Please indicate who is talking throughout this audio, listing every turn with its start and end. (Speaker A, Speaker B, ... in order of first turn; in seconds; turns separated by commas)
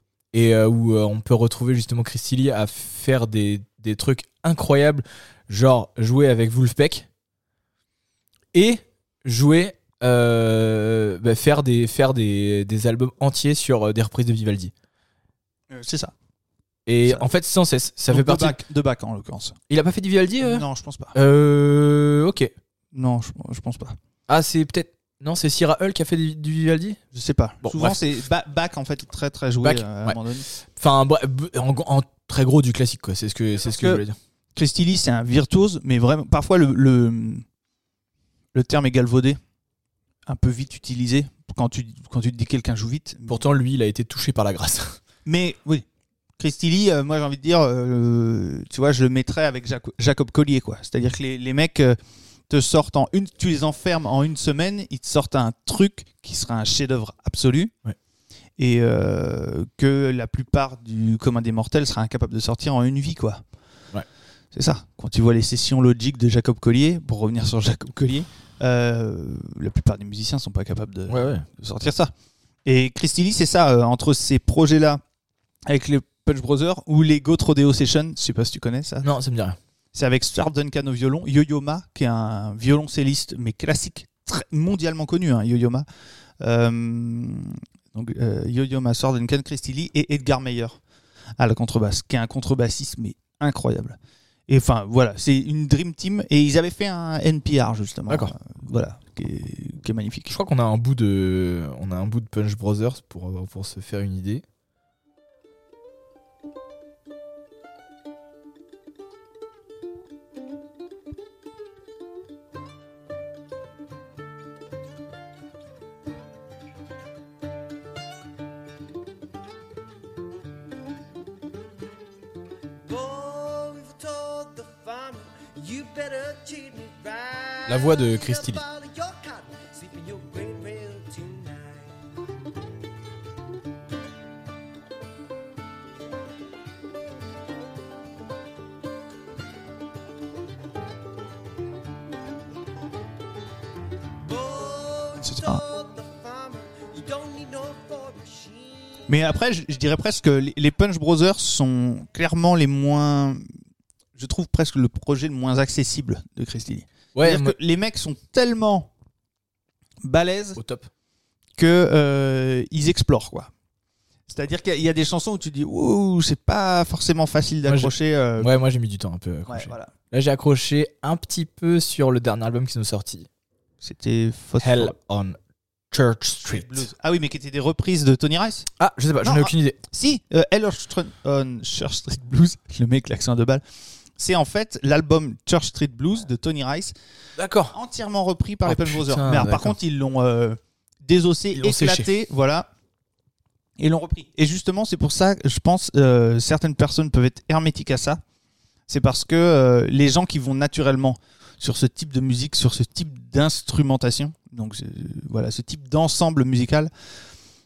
Speaker A: 0.3-7.1, Speaker A: 8.5-14.7, Speaker B: 15.7-16.1, Speaker A: 16.9-18.6, Speaker B: 18.1-19.6, Speaker A: 19.7-22.5, Speaker B: 20.4-21.1, Speaker B: 22.9-24.0, Speaker A: 24.3-27.0, Speaker B: 27.1-30.5, Speaker A: 27.6-28.0, Speaker A: 29.6-30.2, Speaker A: 30.8-34.2, Speaker B: 33.6-34.0, Speaker B: 34.5-37.5, Speaker B: 38.5-39.4, Speaker B: 40.3-43.4, Speaker A: 43.3-45.0, Speaker B: 45.3-45.9, Speaker B: 46.4-52.0, Speaker B: 52.5-57.7, Speaker B: 58.6-63.4, Speaker B: 64.5-72.1, Speaker A: 71.1-71.5, Speaker B: 72.7-75.0, Speaker B: 75.7-79.1, Speaker A: 79.0-79.6, Speaker B: 79.9-85.9, Speaker B: 86.4-90.8, Speaker B: 91.4-94.0, Speaker B: 94.5-100.3, Speaker A: 100.3-104.4, Speaker C: 122.8-132.0, Speaker A: 127.7-128.6, Speaker C: 144.2-149.2, Speaker B: 145.2-145.6, Speaker B: 149.1-153.4, Speaker B: 154.2-158.9, Speaker A: 157.2-157.6, Speaker B: 160.0-160.6, Speaker A: 160.6-160.9, Speaker B: 161.6-163.5, Speaker B: 164.3-168.5, Speaker A: 167.7-173.3, Speaker B: 169.5-169.9, Speaker B: 173.8-174.9, Speaker A: 174.6-175.4, Speaker A: 175.9-176.9, Speaker B: 176.5-178.7, Speaker A: 178.8-179.8, Speaker B: 179.2-183.6, Speaker B: 184.2-186.9, Speaker A: 187.4-187.8, Speaker B: 187.7-192.7, Speaker A: 188.7-189.8, Speaker A: 191.5-192.1, Speaker B: 193.8-198.2, Speaker B: 198.9-206.9